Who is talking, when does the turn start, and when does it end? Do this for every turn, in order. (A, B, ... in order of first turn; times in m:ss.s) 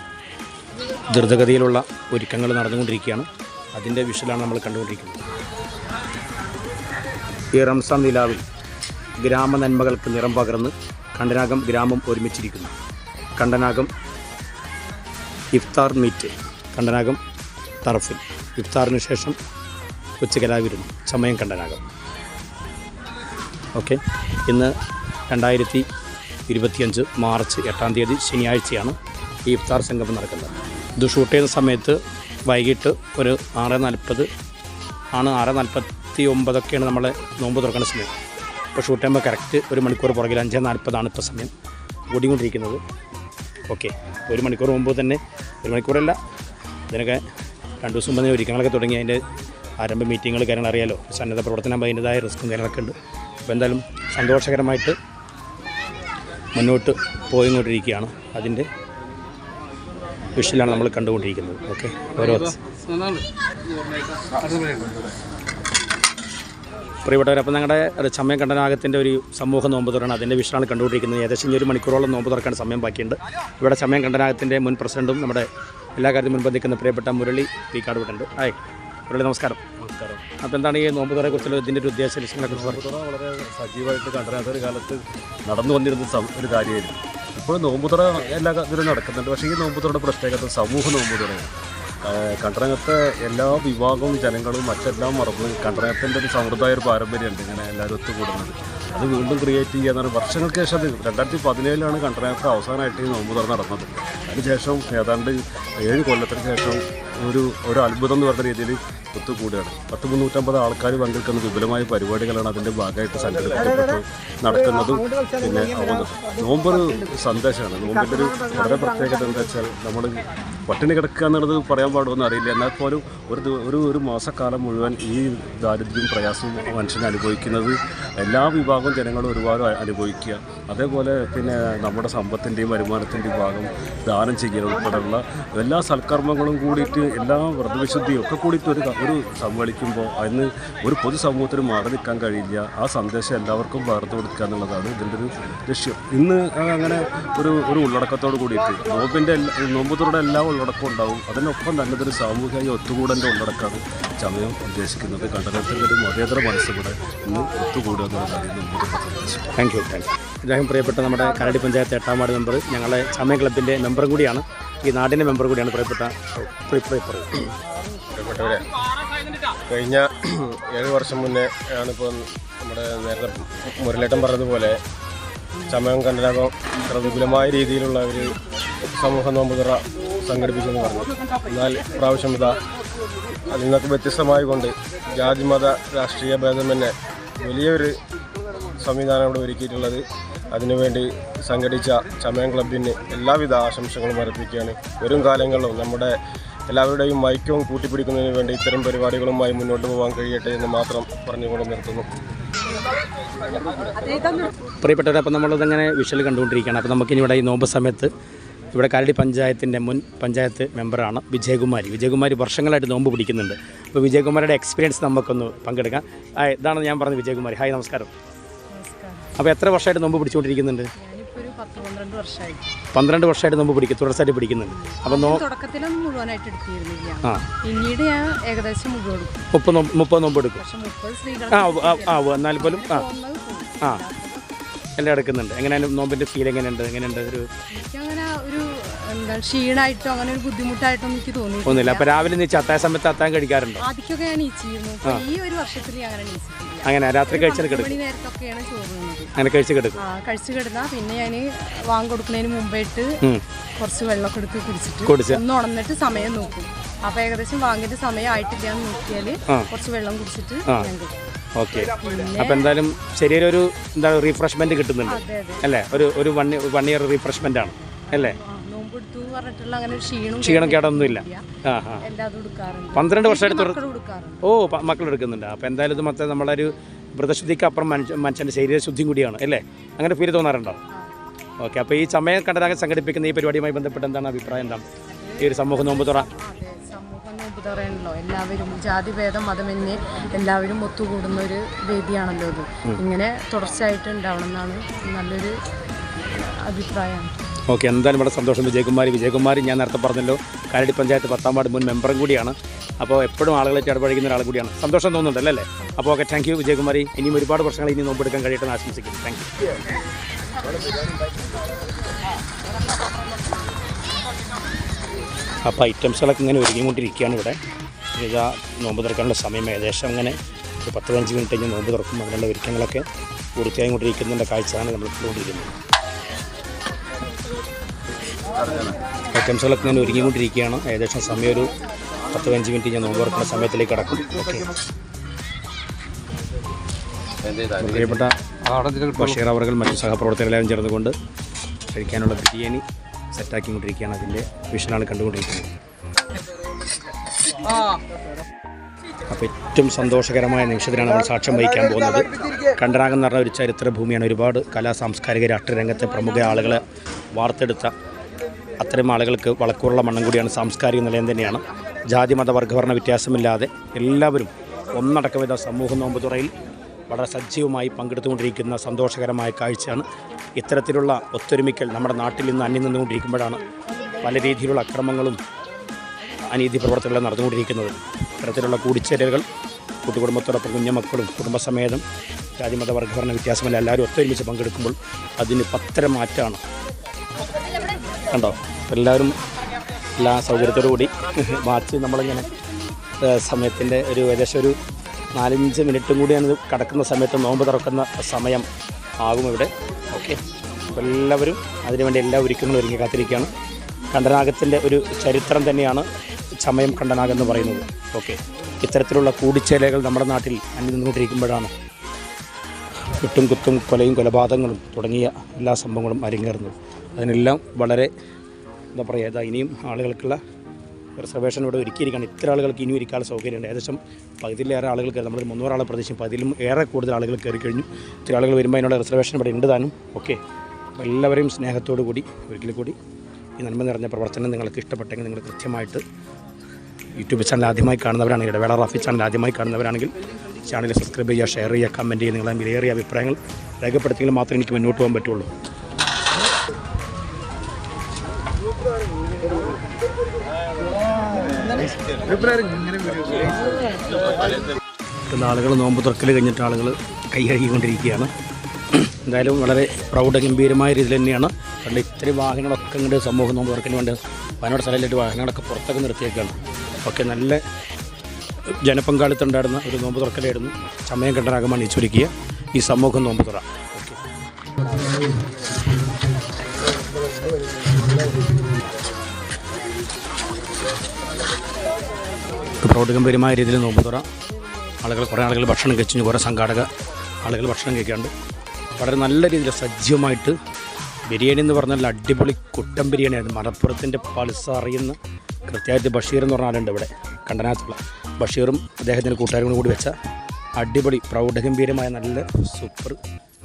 0:01.1-0:05.2 A
0:07.5-0:08.4 A
0:09.2-0:12.7 A
0:13.4-0:13.9 A
0:15.5-0:17.2 A
0:17.8-0:19.4 A
0:20.2-0:21.8 A
0:23.8-0:24.7 A
0:25.3-0:25.8 A
0:26.5-0:34.3 A
0:35.1-0:38.1 A
0:38.7-0:41.5 A
0:42.1-0:42.8 A
0:43.7-0:46.2 A
0:46.9-0:47.2 A
0:47.8-0:49.2 A
0:49.8-0:52.9 A
0:53.4-0:55.0 A
0:56.5-0:58.7 A
1:00.3-1:02.6 A
1:07.0-1:18.6 A
1:19.1-1:19.6 A
1:19.8-1:20.2 B
1:20.4-1:22.8 A
1:22.4-1:31.5 B
1:32.0-2:39.5 B
2:39.6-2:47.5 A
2:48.1-2:48.6 C
2:49.7-2:54.8 C
2:55.7-3:02.6 C
3:03.5-3:07.9 C
3:08.8-3:16.1 C
3:16.7-3:22.0 C
3:24.8-3:28.1 A
3:28.7-3:38.1 A
3:38.7-3:39.3 D
3:39.4-3:40.9 A
3:41.0-3:42.7 D
3:42.9-3:45.4 A
3:44.7-3:49.4 D
3:49.5-3:50.6 A
3:50.5-3:54.6 D
3:51.5-3:53.0 A
3:55.0-3:57.5 A
3:57.7-4:02.3 D
4:01.6-4:03.8 A
4:03.8-4:09.3 D
4:06.8-4:08.0 A
4:09.4-4:10.0 A
4:10.0-4:13.2 D
4:13.8-4:21.2 D
4:15.0-4:15.4 A
4:21.6-4:28.4 A
4:21.9-4:22.8 D
4:25.0-4:25.7 D
4:27.8-4:31.4 D
4:30.4-4:32.0 A
4:32.0-4:34.4 D
4:32.9-4:33.8 A
4:34.4-4:40.8 A
4:40.9-4:41.2 D
4:41.6-4:44.8 A
4:45.0-4:55.6 D
4:45.4-4:46.3 A
4:56.3-4:57.3 D
4:57.7-5:09.5 A
5:15.6-5:17.6 A
5:18.1-5:23.0 A
5:23.6-5:25.7 A
5:29.3-5:31.7 A
5:32.3-5:34.7 A
5:37.6-5:41.1 A
5:41.9-5:45.7 A
5:49.3-5:56.8 A
5:57.3-5:57.9 A
5:58.8-6:06.5 A
6:07.1-6:10.0 A
6:10.6-6:13.6 A
6:14.2-6:15.4 A
6:16.5-6:19.4 A
6:20.0-6:22.0 A
6:22.6-6:26.6 A
6:28.3-6:29.4 A
6:30.2-6:32.5 A
6:33.2-6:34.8 A
6:35.3-6:38.7 A
6:39.2-6:43.5 A
6:44.1-6:46.1 A
6:46.6-6:51.7 A
6:53.1-6:58.1 A
6:58.9-7:00.4 A
7:01.2-7:10.4 A
7:11.0-7:13.0 A
7:13.6-7:16.0 A
7:17.1-7:20.1 A
7:20.6-7:25.5 A
7:32.3-7:32.7 A
7:35.3-7:38.3 A
7:38.9-7:47.6 A
7:48.6-7:54.2 A
8:02.8-8:04.2 A
8:05.0-8:06.9 A
8:07.4-8:08.3 A
8:09.0-8:10.6 A
8:11.3-8:20.1 A
8:20.8-8:23.2 A